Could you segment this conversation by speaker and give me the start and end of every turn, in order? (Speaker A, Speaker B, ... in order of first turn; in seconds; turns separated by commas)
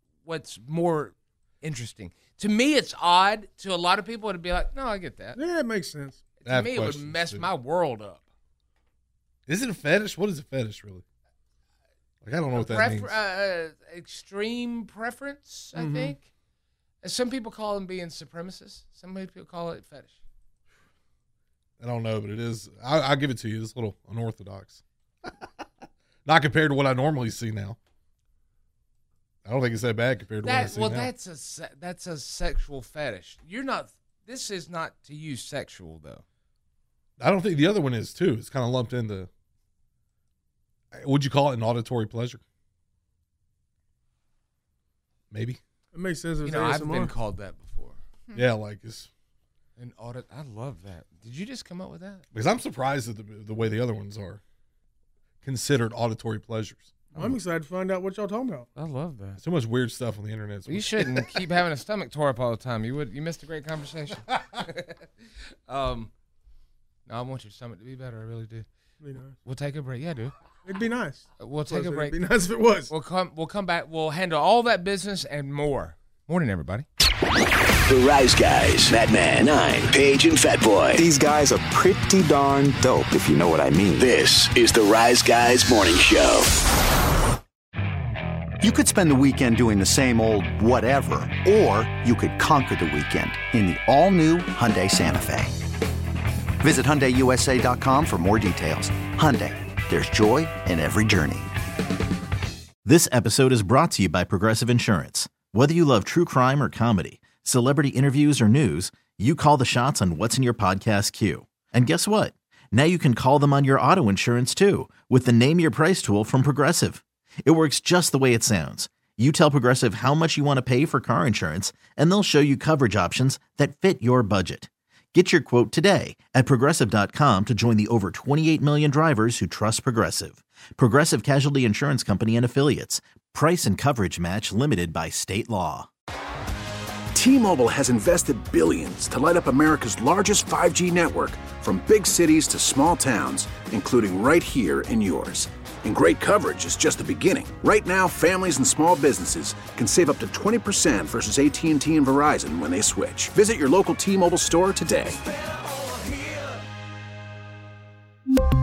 Speaker A: 0.2-5.4, Speaker B: 5.3-6.2, Speaker A: 6.4-8.2, Speaker C: 6.4-7.5, Speaker C: 9.5-11.0, Speaker C: 12.2-13.1, Speaker A: 12.5-16.3, Speaker B: 15.7-16.1, Speaker A: 17.0-20.1, Speaker C: 21.8-24.8, Speaker C: 26.2-27.8, Speaker C: 29.4-31.1, Speaker A: 30.4-36.2, Speaker C: 37.2-39.3, Speaker C: 40.9-42.4, Speaker C: 45.3-45.6, Speaker B: 45.9-47.1, Speaker A: 46.4-48.0, Speaker C: 48.3-49.1, Speaker A: 49.8-52.2, Speaker C: 52.3-54.4, Speaker C: 55.4-57.4, Speaker B: 57.1-58.7, Speaker A: 58.7-59.4, Speaker C: 59.4-61.4, Speaker A: 60.7-65.1, Speaker A: 65.7-66.1, Speaker A: 67.1-68.7, Speaker B: 69.0-69.3, Speaker A: 69.4-70.3, Speaker B: 70.6-72.9, Speaker A: 71.4-72.2, Speaker A: 72.9-76.8, Speaker D: 77.8-81.0, Speaker D: 84.0-86.5, Speaker E: 88.6-95.5, Speaker E: 96.6-101.5, Speaker F: 102.8-135.9, Speaker G: 137.1-155.2